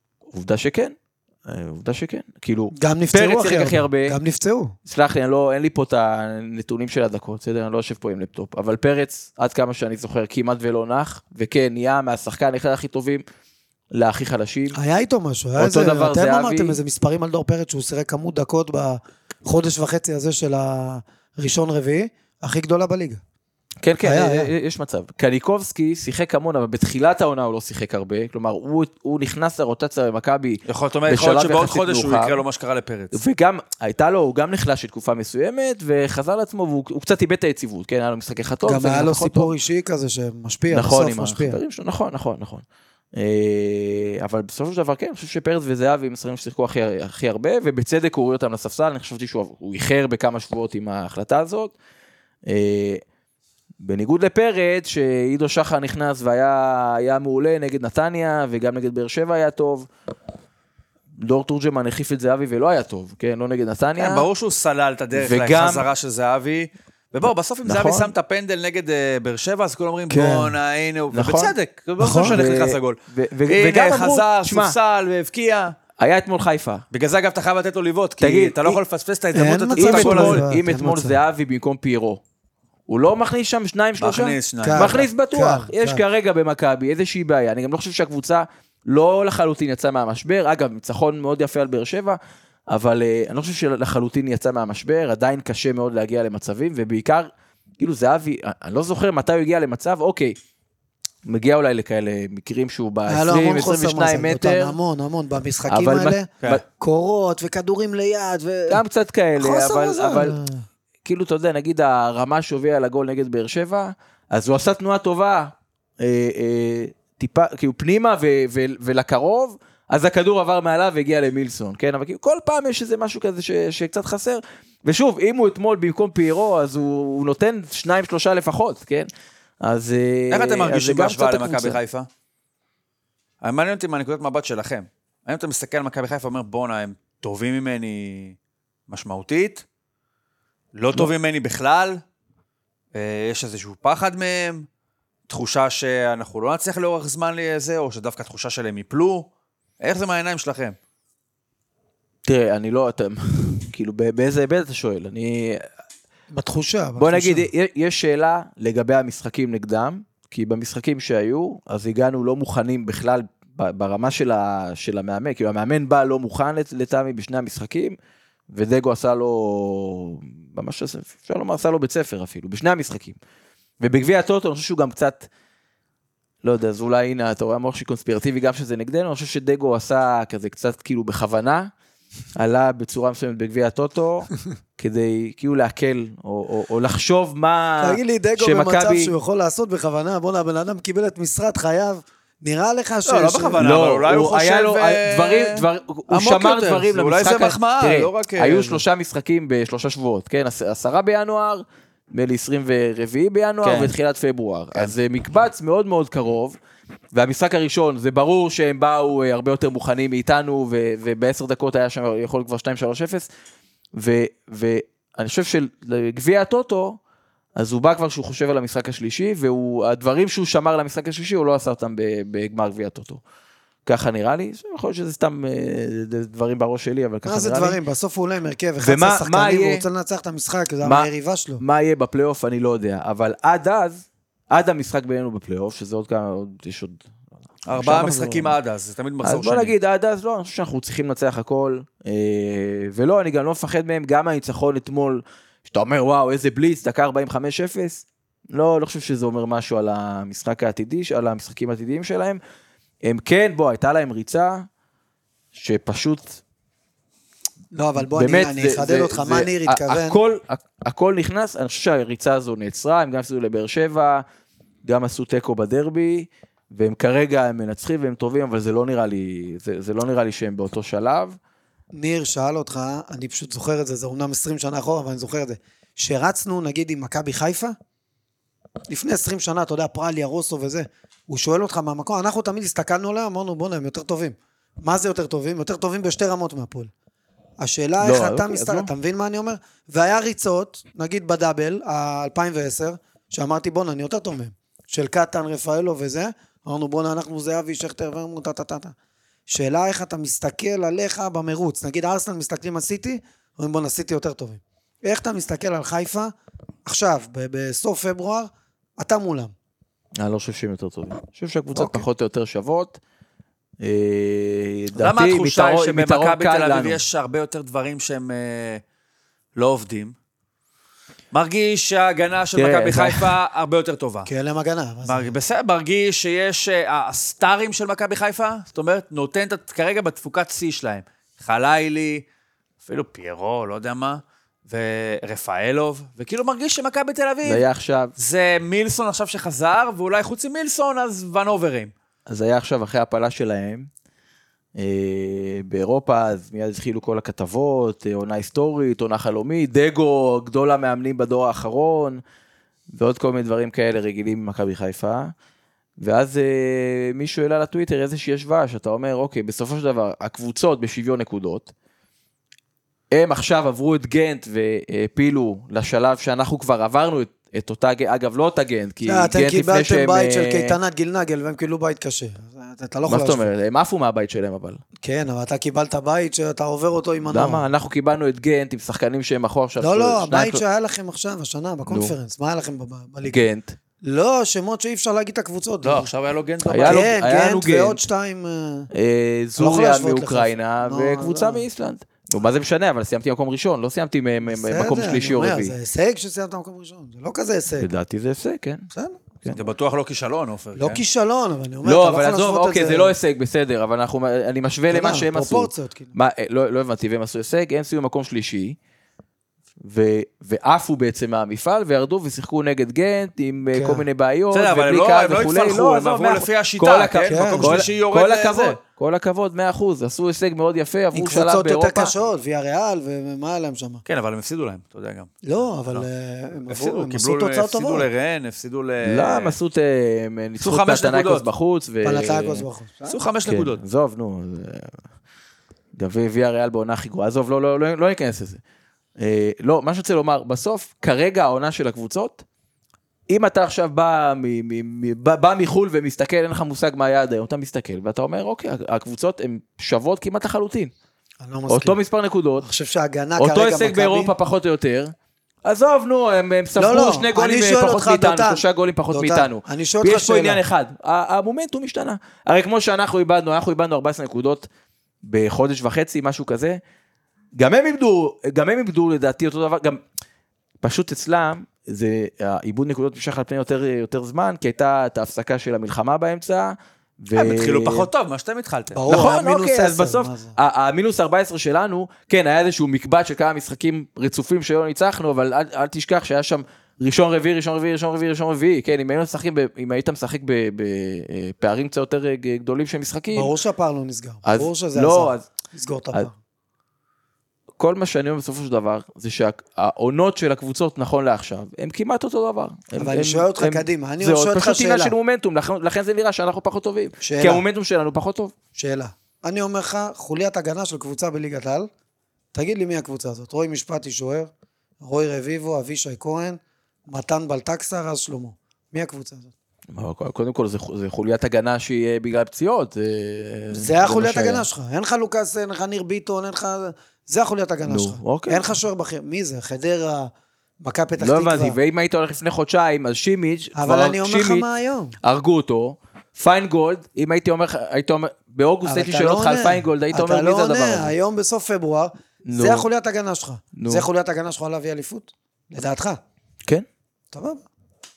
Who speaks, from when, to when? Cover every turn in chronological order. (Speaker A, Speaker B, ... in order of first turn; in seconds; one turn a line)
Speaker A: 0.3-4.2
Speaker B: 2.7-4.7
Speaker A: 4.8-13.2
Speaker A: 13.9-14.8
Speaker B: 14.7-23.2
Speaker A: 15.6-16.8
Speaker A: 23.8-32.4
Speaker B: 24.0-24.5
Speaker C: 30.6-33.2
Speaker A: 33.1-39.5
Speaker B: 38.6-41.6
Speaker A: 40.7-51.7
Speaker A: 52.5-53.0
Speaker A: 53.8-59.9
Speaker A: 61.2-64.2
Speaker C: 64.0-75.7
Speaker A: 65.1-65.8
Speaker A: 67.6-68.1
Speaker B: 70.1-70.5
Speaker A: 71.1-71.5
Speaker B: 72.0-72.4
Speaker A: 72.1-74.8
Speaker A: 76.0-76.8
Speaker C: 76.9-80.4
Speaker A: 78.2-78.8
Speaker B: 79.3-81.2
Speaker A: 79.8-82.2
Speaker A: 82.9-100.3
Speaker C: 84.0-85.0
Speaker B: 84.6-86.0
Speaker A: 101.2-104.8
Speaker B: 103.1-108.8
Speaker A: 105.7-106.6
Speaker A: 108.7-110.4
Speaker B: 109.4-110.6
Speaker A: 111.0-129.1
Speaker A: 129.6-131.8
Speaker C: 130.3-132.1
Speaker C: 133.4-138.3
Speaker C: 138.9-139.6
Speaker C: 140.7-142.0
Speaker C: 142.9-144.7
Speaker C: 145.3-149.3
Speaker C: 149.8-150.8
Speaker A: 152.2-155.7
Speaker B: 156.3-157.5
Speaker A: 157.0-168.0
Speaker A: 168.5-173.2
Speaker A: 173.8-175.3
Speaker A: 176.4-181.7
Speaker A: 182.3-189.1
Speaker B: 187.8-193.6
Speaker C: 193.0-198.8
Speaker A: 193.6-206.6
Speaker C: 203.6-203.9
Speaker A: 207.1-213.3
Speaker A: 213.9-217.0
Speaker A: 217.6-223.2
Speaker A: 223.8-227.8
Speaker B: 227.2-231.6
Speaker A: 228.8-229.8
Speaker A: 230.8-237.1
Speaker C: 237.7-239.7
Speaker A: 237.7-238.6
Speaker A: 239.2-252.4
Speaker A: 253.0-254.7
Speaker A: 255.5-256.4
Speaker B: 257.7-260.2
Speaker A: 258.1-264.2
Speaker A: 264.8-271.4
Speaker B: 271.9-277.8
Speaker B: 278.9-286.9
Speaker B: 287.6-298.9
Speaker A: 288.0-288.9
Speaker B: 299.5-306.3
Speaker B: 306.8-309.5
Speaker A: 310.2-313.0
Speaker B: 311.7-312.1
Speaker A: 313.8-317.0
Speaker C: 314.9-318.8
Speaker C: 319.6-320.1
Speaker C: 321.3-324.3
Speaker A: 322.5-323.3
Speaker B: 324.2-325.3
Speaker C: 325.1-332.2
Speaker C: 332.8-337.6
Speaker A: 337.4-338.1
Speaker C: 338.2-341.9
Speaker A: 342.3-343.9
Speaker A: 344.8-352.2
Speaker A: 352.9-355.3
Speaker A: 356.0-361.7
Speaker A: 363.1-370.8
Speaker B: 369.0-373.5
Speaker A: 373.1-374.8
Speaker B: 375.0-377.7
Speaker A: 377.3-380.6
Speaker B: 379.8-383.4
Speaker A: 381.9-382.1
Speaker A: 383.3-383.8
Speaker B: 384.0-386.1
Speaker C: 385.8-387.1
Speaker A: 386.6-388.0
Speaker B: 386.8-388.9
Speaker A: 388.9-395.7
Speaker B: 389.6-391.6
Speaker B: 394.4-397.9
Speaker A: 397.8-398.9
Speaker B: 398.9-399.2
Speaker C: 399.5-401.0
Speaker B: 400.8-403.1
Speaker A: 401.8-408.8
Speaker B: 404.9-406.1
Speaker A: 409.8-422.1
Speaker B: 413.7-414.1
Speaker C: 414.5-418.8
Speaker B: 417.2-417.9
Speaker B: 421.1-424.0
Speaker C: 424.1-425.3
Speaker B: 425.4-428.1
Speaker C: 426.7-429.6
Speaker A: 429.0-432.6
Speaker C: 430.6-431.5
Speaker B: 432.0-433.2
Speaker C: 433.1-433.8
Speaker A: 433.4-435.0
Speaker A: 435.9-438.6
Speaker A: 439.2-442.4
Speaker A: 443.3-450.9
Speaker B: 451.4-452.0
Speaker A: 451.7-452.7
Speaker B: 452.6-454.3
Speaker A: 453.4-455.1
Speaker A: 455.6-464.7
Speaker B: 456.8-460.6
Speaker A: 465.2-466.8
Speaker A: 467.6-470.0
Speaker A: 470.8-478.1
Speaker C: 477.3-479.0
Speaker B: 478.9-480.6
Speaker A: 479.1-493.5
Speaker B: 493.3-496.3
Speaker A: 494.4-495.5
Speaker A: 497.8-508.5
Speaker B: 503.0-505.1
Speaker B: 507.2-507.6
Speaker B: 508.7-511.9
Speaker B: 512.5-519.5
Speaker A: 519.9-524.6
Speaker B: 523.7-531.8
Speaker A: 527.8-528.6
Speaker A: 531.2-534.6
Speaker B: 533.7-535.1
Speaker A: 535.2-541.1
Speaker B: 538.8-546.2
Speaker A: 542.4-542.9
Speaker A: 543.7-544.1
Speaker B: 547.3-547.6